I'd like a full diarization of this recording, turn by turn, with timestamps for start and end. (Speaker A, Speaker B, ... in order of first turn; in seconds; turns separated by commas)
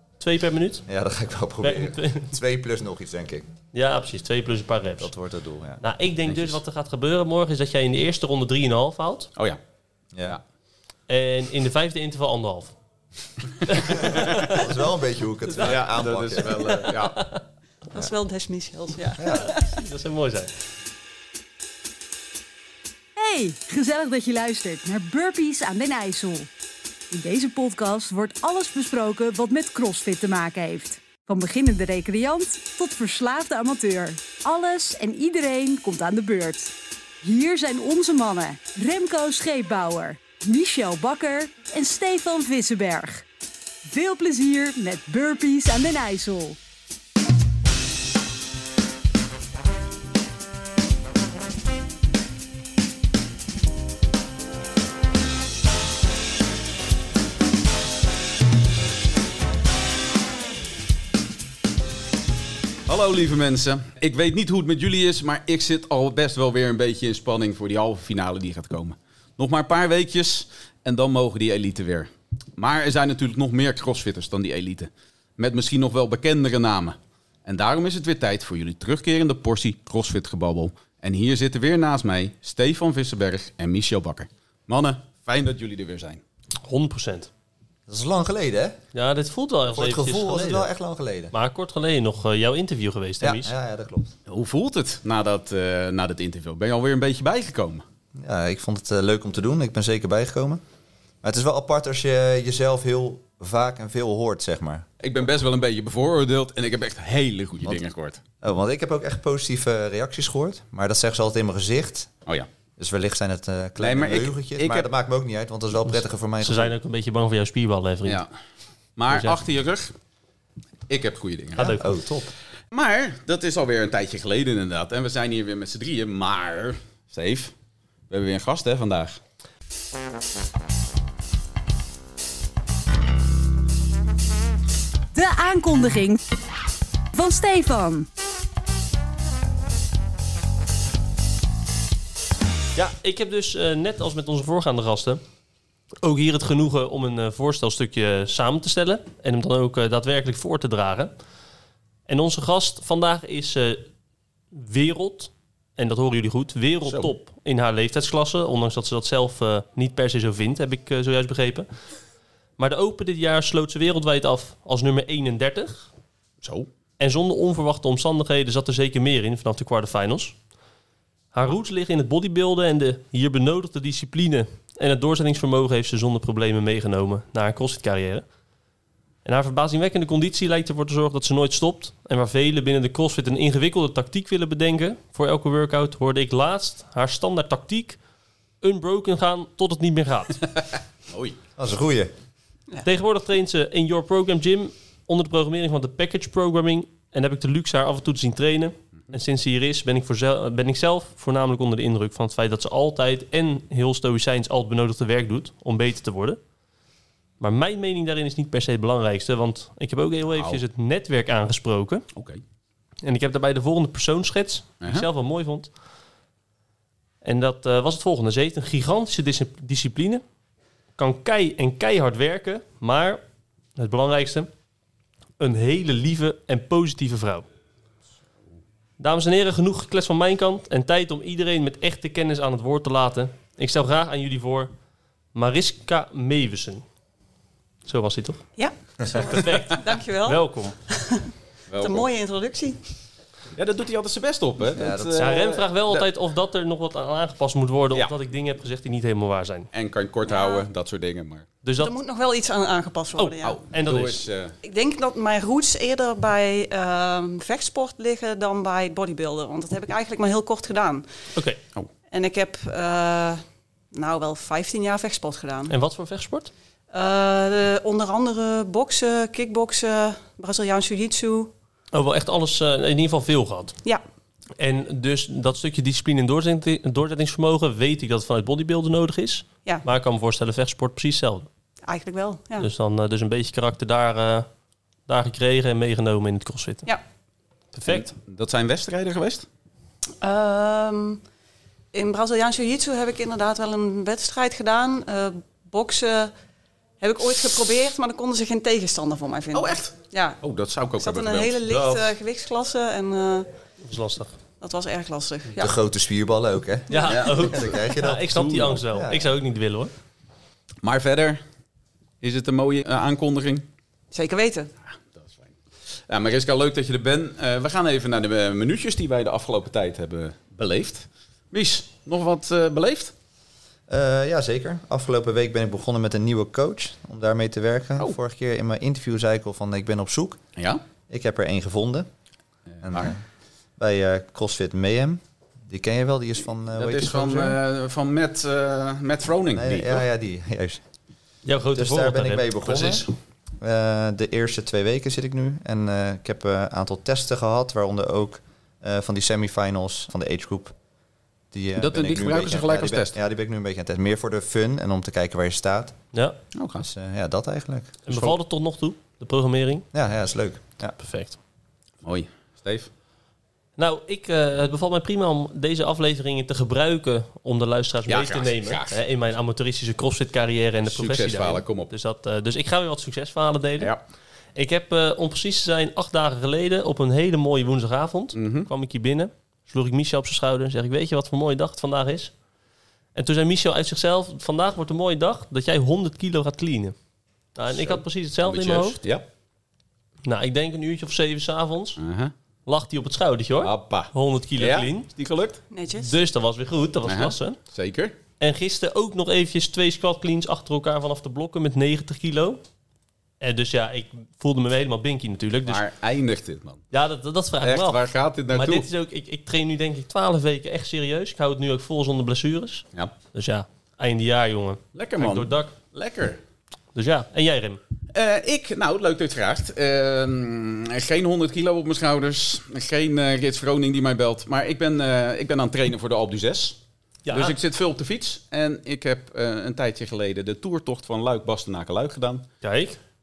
Speaker A: 0.2-0.8, Speaker B: 0.9-3.5, Speaker A: 1.6-2.3, Speaker A: 3.7-5.1, Speaker B: 5.0-5.8, Speaker A: 5.8-9.3, Speaker C: 6.3-6.6, Speaker A: 11.1-12.7, Speaker A: 13.7-14.6, Speaker B: 13.9-16.8, Speaker C: 14.1-14.5, Speaker C: 15.6-17.2, Speaker A: 16.5-17.4, Speaker D: 17.9-19.7, Speaker B: 19.2-19.5, Speaker A: 19.2-20.5, Speaker E: 23.2-26.5, Speaker E: 27.1-43.3, Speaker E: 43.9-46.6, Speaker C: 62.9-86.2, Speaker A: 86.6-87.3, Speaker B: 87.9-88.8, Speaker A: 88.9-90.7, Speaker B: 89.7-91.3, Speaker A: 91.3-93.5, Speaker B: 93.2-94.2, Speaker C: 94.3-97.8, Speaker B: 98.2-100.6, Speaker B: 101.2-104.9, Speaker C: 105.0-108.2, Speaker B: 108.4-112.1, Speaker B: 112.8-116.7, Speaker C: 113.8-114.9, Speaker A: 115.9-118.2, Speaker C: 119.0-119.9, Speaker A: 119.1-119.4, Speaker C: 120.9-121.8, Speaker A: 121.6-121.9, Speaker B: 121.6-122.3, Speaker C: 122.7-127.5, Speaker C: 128.1-129.2, Speaker E: 135.1-136.2, Speaker E: 137.1-138.1, Speaker A: 142.8-145.2, Speaker A: 146.0-151.1, Speaker A: 152.1-153.9, Speaker A: 154.5-161.7, Speaker A: 162.6-165.9, Speaker C: 166.4-166.7, Speaker A: 167.0-170.4, Speaker A: 171.3-178.2, Speaker A: 179.2-188.0, Speaker A: 188.6-190.4, Speaker C: 190.4-191.4, Speaker B: 191.6-192.1, Speaker A: 192.8-206.4, Speaker A: 207.4-212.1, Speaker C: 212.1-212.4, Speaker A: 213.0-215.7, Speaker C: 214.8-215.1, Speaker A: 217.2-220.2, Speaker A: 221.0-223.2, Speaker A: 223.8-224.5, Speaker A: 225.4-227.5, Speaker A: 229.0-234.7, Speaker A: 235.3-236.8, Speaker A: 237.8-238.5, Speaker D: 238.6-241.3, Speaker A: 239.1-240.8, Speaker C: 241.7-242.1, Speaker D: 241.8-242.8, Speaker C: 243.5-246.0, Speaker B: 244.7-245.4, Speaker A: 245.2-249.7, Speaker C: 249.7-251.5, Speaker D: 250.2-250.6, Speaker A: 251.6-251.9, Speaker D: 251.8-253.6, Speaker A: 253.2-254.2, Speaker C: 253.4-254.6, Speaker D: 254.6-261.0, Speaker A: 261.3-261.6, Speaker D: 262.1-263.4, Speaker D: 263.9-265.7, Speaker A: 265.7-266.5, Speaker D: 266.9-271.5, Speaker A: 271.9-273.8, Speaker A: 274.6-281.5, Speaker D: 281.8-282.7, Speaker A: 282.6-284.5, Speaker A: 285.1-286.9, Speaker A: 287.7-288.1, Speaker C: 287.9-289.4, Speaker D: 290.2-291.2, Speaker D: 291.9-296.3, Speaker D: 297.0-300.4, Speaker C: 299.5-302.1, Speaker D: 301.0-303.5, Speaker A: 303.8-304.3, Speaker D: 304.6-305.8, Speaker B: 305.6-309.3, Speaker A: 306.9-309.9, Speaker C: 307.1-307.6, Speaker C: 308.3-308.7, Speaker C: 310.8-311.4, Speaker C: 312.2-313.6, Speaker D: 314.1-314.7, Speaker C: 315.1-315.5, Speaker C: 316.1-323.1, Speaker B: 323.9-330.4, Speaker C: 330.6-330.8, Speaker B: 331.1-332.1, Speaker C: 332.8-333.1, Speaker B: 332.8-333.2, Speaker B: 333.8-337.6, Speaker C: 336.7-340.0, Speaker B: 339.6-340.8, Speaker A: 341.4-342.6, Speaker B: 341.7-343.0, Speaker C: 342.6-343.1, Speaker B: 343.6-350.7, Speaker B: 351.5-355.9, Speaker C: 351.8-353.1, Speaker C: 356.5-356.9, Speaker B: 356.8-358.0, Speaker A: 358.1-359.9, Speaker B: 359.9-360.9, Speaker A: 361.0-361.4, Speaker C: 362.0-362.9, Speaker A: 363.8-373.9, Speaker C: 368.1-369.0, Speaker C: 370.9-371.9, Speaker A: 374.5-382.3, Speaker C: 378.3-378.7, Speaker A: 383.1-386.9, Speaker A: 387.6-389.0, Speaker C: 387.7-389.2, Speaker A: 390.2-392.0, Speaker C: 392.0-392.3, Speaker A: 392.7-395.1, Speaker C: 393.6-395.6, Speaker D: 395.7-396.1, Speaker A: 396.0-397.6, Speaker C: 397.0-398.1, Speaker A: 398.4-402.6, Speaker A: 403.4-405.8, Speaker C: 405.7-406.8, Speaker A: 406.9-415.7, Speaker C: 407.6-408.9, Speaker C: 414.9-416.4, Speaker A: 416.9-417.8, Speaker C: 418.1-426.8, Speaker A: 427.2-427.6, Speaker C: 427.3-432.5, Speaker A: 432.6-433.0